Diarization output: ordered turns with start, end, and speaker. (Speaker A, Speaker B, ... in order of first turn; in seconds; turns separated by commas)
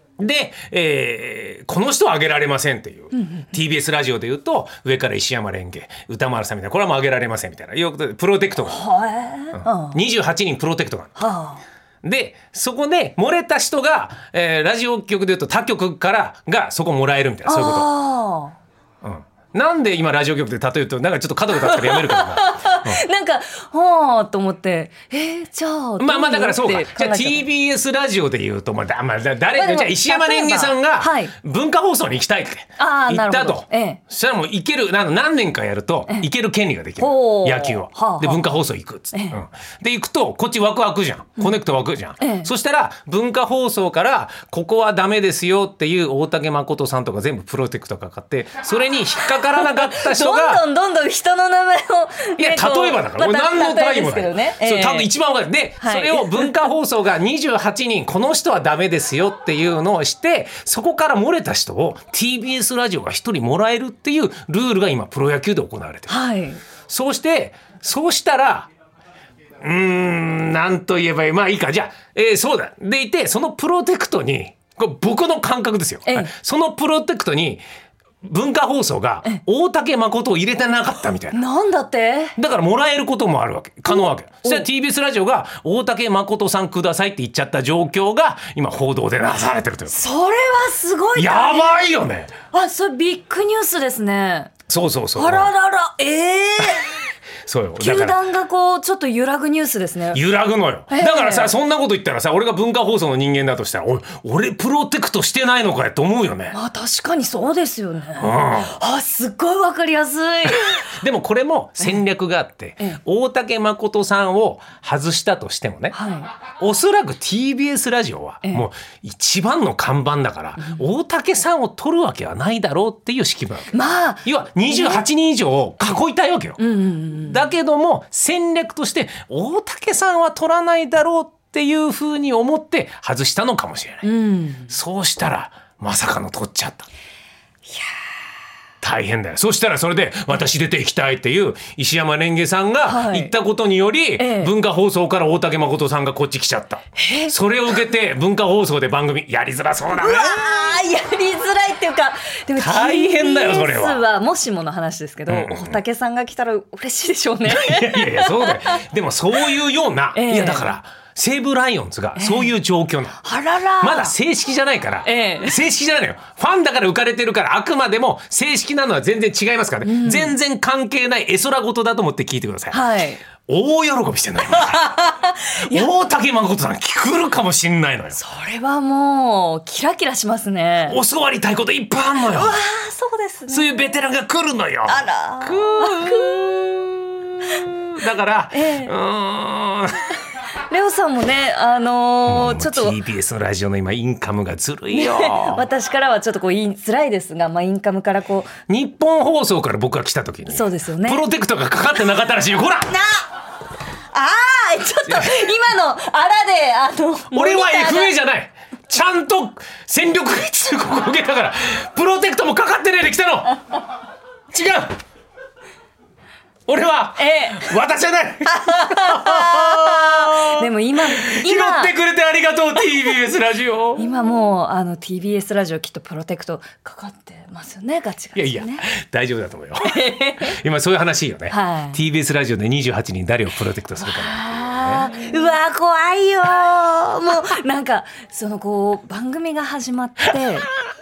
Speaker A: 0.2-8.9, Speaker B: 3.1-3.5, Speaker B: 8.6-10.0, Speaker A: 9.5-11.2, Speaker B: 11.2-11.6, Speaker A: 12.0-17.9, Speaker B: 17.4-18.6, Speaker A: 19.0-23.0, Speaker B: 21.5-27.4, Speaker A: 26.0-50.6, Speaker B: 29.6-31.3, Speaker B: 32.8-34.0, Speaker B: 37.0-38.5, Speaker B: 39.1-39.4, Speaker B: 42.2-42.5, Speaker B: 49.6-55.1, Speaker A: 52.4-66.2, Speaker B: 55.8-56.6, Speaker B: 66.1-66.6, Speaker A: 66.9-68.7, Speaker A: 69.6-77.6, Speaker B: 76.0-76.3, Speaker A: 78.2-81.4, Speaker B: 81.3-82.3, Speaker A: 82.3-90.0, Speaker B: 83.9-84.7, Speaker B: 89.9-91.8, Speaker A: 91.1-92.3, Speaker B: 92.5-94.5, Speaker A: 94.7-95.5, Speaker B: 95.2-97.0, Speaker A: 97.4-98.2, Speaker B: 97.8-100.2, Speaker A: 100.1-106.5, Speaker B: 100.9-101.5, Speaker B: 106.5-110.9, Speaker A: 108.2-108.7, Speaker A: 110.5-116.0, Speaker B: 115.9-116.3, Speaker A: 116.6-126.6, Speaker B: 123.7-125.0, Speaker B: 126.6-127.4, Speaker A: 127.2-134.1, Speaker B: 134.0-134.7, Speaker A: 134.7-136.9, Speaker A: 138.8-150.5, Speaker B: 142.8-143.3, Speaker B: 144.2-144.5, Speaker B: 147.0-147.3, Speaker B: 149.9-158.8, Speaker A: 152.6-154.1, Speaker A: 155.3-155.8, Speaker A: 157.4-163.2, Speaker B: 160.1-160.7, Speaker B: 162.2-162.5, Speaker B: 163.2-164.1, Speaker A: 163.8-172.8, Speaker B: 165.0-165.6, Speaker B: 169.8-170.3, Speaker B: 172.7-173.2, Speaker A: 173.5-174.9, Speaker B: 174.5-175.9, Speaker A: 175.5-178.2, Speaker B: 178.1-181.0, Speaker A: 180.8-182.6, Speaker B: 182.2-184.0, Speaker A: 183.5-190.2, Speaker B: 184.8-186.6, Speaker B: 188.5-188.9, Speaker B: 190.7-192.9, Speaker A: 192.3-195.6, Speaker B: 194.9-198.5, Speaker A: 198.7-202.9, Speaker B: 200.4-201.2, Speaker B: 202.9-203.3, Speaker B: 204.1-208.1, Speaker A: 205.1-205.5, Speaker A: 207.3-213.7, Speaker A: 214.5-214.9, Speaker A: 216.7-224.1, Speaker B: 217.2-217.7, Speaker B: 218.5-221.9, Speaker B: 223.9-228.9, Speaker A: 228.3-235.1, Speaker B: 229.8-230.6, Speaker B: 231.5-232.0, Speaker B: 234.0-240.7